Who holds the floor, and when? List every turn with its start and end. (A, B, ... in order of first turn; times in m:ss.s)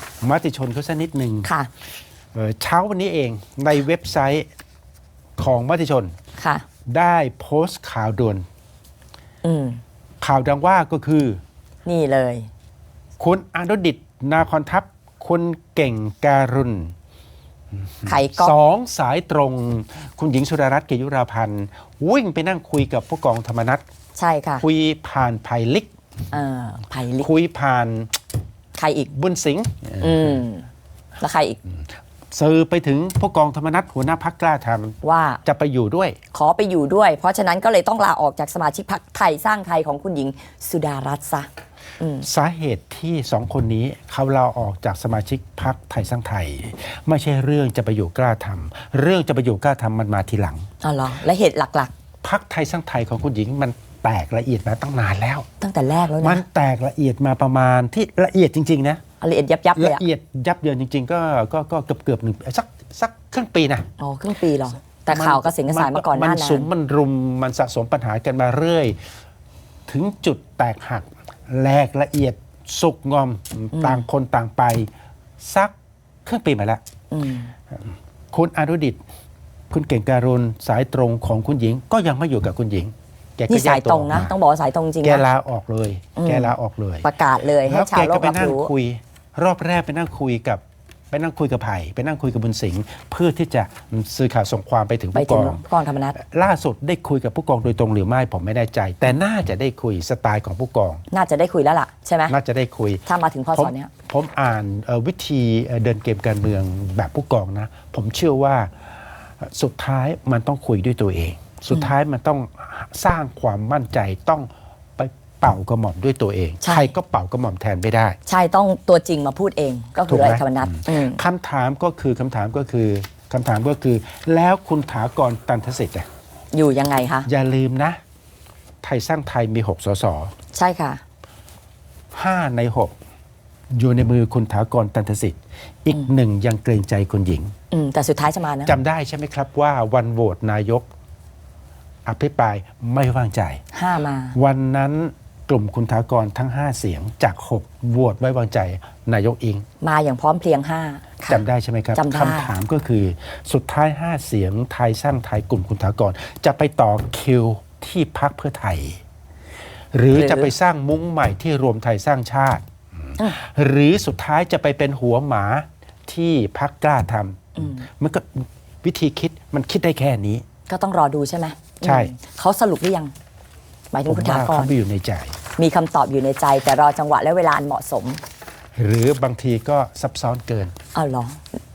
0:00.2-0:01.5 A
0:01.4-0:01.7 B
0:02.3-0:04.5 A
0:05.4-0:06.1 A
0:06.4-0:06.6 B
0:06.9-0:08.4 A
0:09.4-0:09.8 B
0:10.2-0:11.4 A
0:11.8-0:12.5 B
0:13.2-0:16.9 A
0:18.0-0:23.8 A
0:18.0-0:18.5 B
0:24.2-0:24.6 B
0:24.6-0:25.9 A
0:26.3-0:27.3 B
0:27.2-0:28.1 A
0:28.8-0:29.1 B
0:29.1-0:30.4 A
0:30.0-0:30.7 B
0:31.2-0:31.6 B
0:32.3-0:36.2 A
0:35.0-0:35.4 B
0:36.3-0:41.5 B
0:42.0-0:42.3 B
0:42.2-0:50.7 A
0:50.8-0:51.9 B
0:52.2-0:55.5 A
0:55.6-0:56.4 B
0:56.2-0:59.0 A
0:59.2-1:00.0 B
0:59.8-1:03.9 A
1:04.0-1:06.7 B
1:05.1-1:09.0 A
1:09.9-1:15.7 A
1:13.7-1:14.0 B
1:16.2-1:16.8 A
1:17.1-1:17.5 B
1:17.7-1:19.0 A
1:19.7-1:24.3 A
1:23.5-1:25.2 B
1:25.0-1:27.1 A
1:26.2-1:28.7 B
1:27.6-1:41.0 A
1:35.1-1:36.2 B
1:41.1-1:42.3 B
1:42.3-1:58.2 A
1:43.1-1:43.9 B
1:56.6-1:56.9 B
1:58.3-2:01.2 B
2:00.1-2:06.0 A
2:06.5-2:07.3 B
2:07.2-2:08.0 A
2:08.8-2:10.3 A
2:10.5-2:11.0 B
2:12.1-2:12.9 A
2:13.7-2:17.5 A
2:17.7-2:18.7 B
2:18.6-2:20.9 A
2:22.0-2:23.6 A
2:23.7-2:24.4 B
2:24.3-2:29.6 A
2:29.8-2:31.4 B
2:31.3-2:39.0 A
2:31.9-2:32.5 B
2:39.9-2:50.4 A
2:40.1-2:40.5 B
2:50.7-2:53.1 B
2:51.8-2:52.1 A
2:53.9-2:54.7 B
2:54.0-2:55.4 A
2:55.6-2:58.2 B
2:58.8-3:00.7 A
3:00.9-3:01.4 B